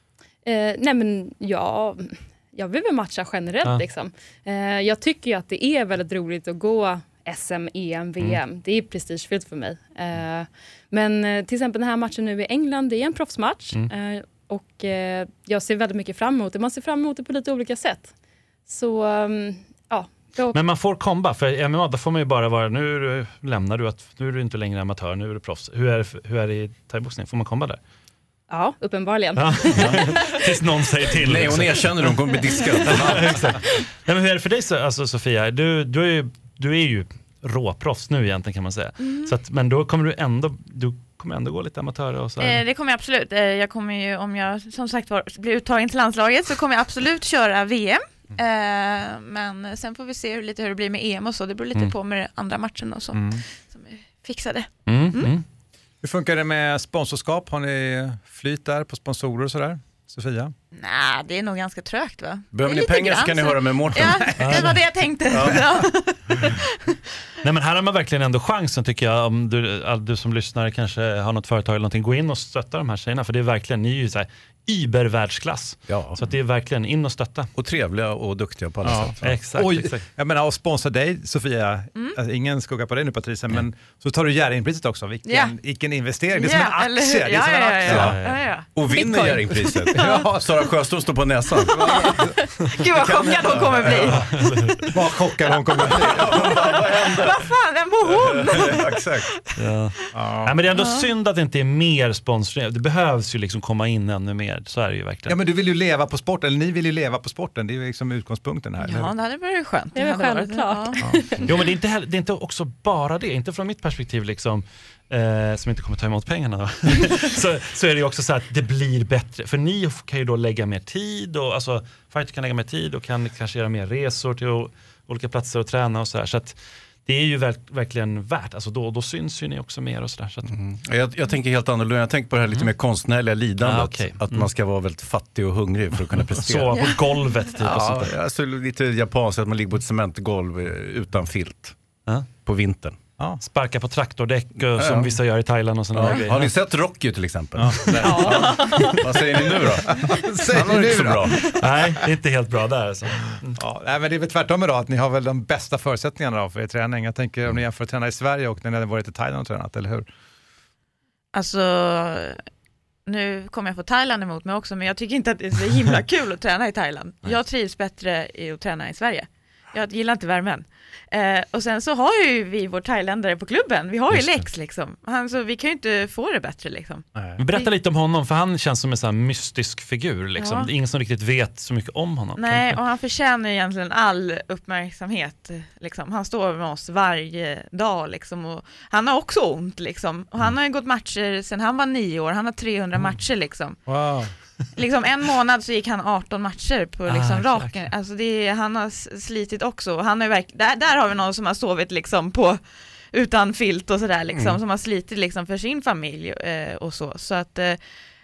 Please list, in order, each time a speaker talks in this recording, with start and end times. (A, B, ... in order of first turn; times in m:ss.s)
0:00.4-0:18.1 A
0:18.7-0:20.6 A
0:20.5-0:27.8 B
0:28.5-0:30.4 A
0:29.4-0:32.1 B
0:31.2-0:33.4 C
0:32.8-0:42.6 B
0:39.0-0:39.3 D
0:42.4-0:55.3 D
0:53.1-0:53.4 E
0:54.9-0:55.4 B
0:56.0-1:00.5 E
1:00.7-1:07.0 D
1:02.5-1:04.6 C
1:04.4-1:04.8 B
1:05.3-1:05.6 C
1:07.4-1:17.5 B
1:15.9-1:16.2 C
1:17.6-1:19.4 C
1:18.9-1:28.2 E
1:18.9-1:20.0 B
1:25.3-1:25.5 D
1:26.4-1:28.8 D
1:27.9-1:28.2 C
1:27.9-1:28.4 B
1:28.7-1:32.2 C
1:28.9-1:29.9 A
1:29.9-1:30.3 D
1:30.0-1:30.6 E
1:31.7-1:34.2 D
1:31.7-1:32.4 E
1:33.0-1:34.2 C
1:34.0-1:34.9 B
1:34.8-1:36.6 E
1:35.9-1:37.5 C
1:36.3-1:39.4 D
1:38.0-1:39.3 C
1:39.6-1:45.4 B
1:40.1-1:40.5 E
1:40.8-1:41.1 D
1:45.3-1:49.1 E
1:48.8-1:51.0 D
1:50.0-1:51.6 A
1:51.5-2:10.6 B
2:10.5-2:16.9 C
2:13.6-2:14.5 B
2:16.4-2:18.1 B
2:17.6-2:21.7 C
2:22.4-2:23.0 C
2:23.4-2:26.5 B
2:24.8-2:25.1 C
2:25.9-2:31.5 C
2:27.6-2:28.3 E
2:28.0-2:29.0 D
2:29.9-2:31.4 E
2:31.5-2:33.6 B
2:33.5-2:40.1 E
2:41.3-2:42.4 D
2:43.1-2:57.7 D
2:54.1-2:54.4 B
2:57.4-3:02.8 B
3:00.4-3:00.7 D
3:02.4-3:13.8 D
3:13.9-3:14.3 E
3:14.8-3:22.6 D
3:17.1-3:17.8 B
3:23.1-3:27.8 D
3:24.3-3:24.6 C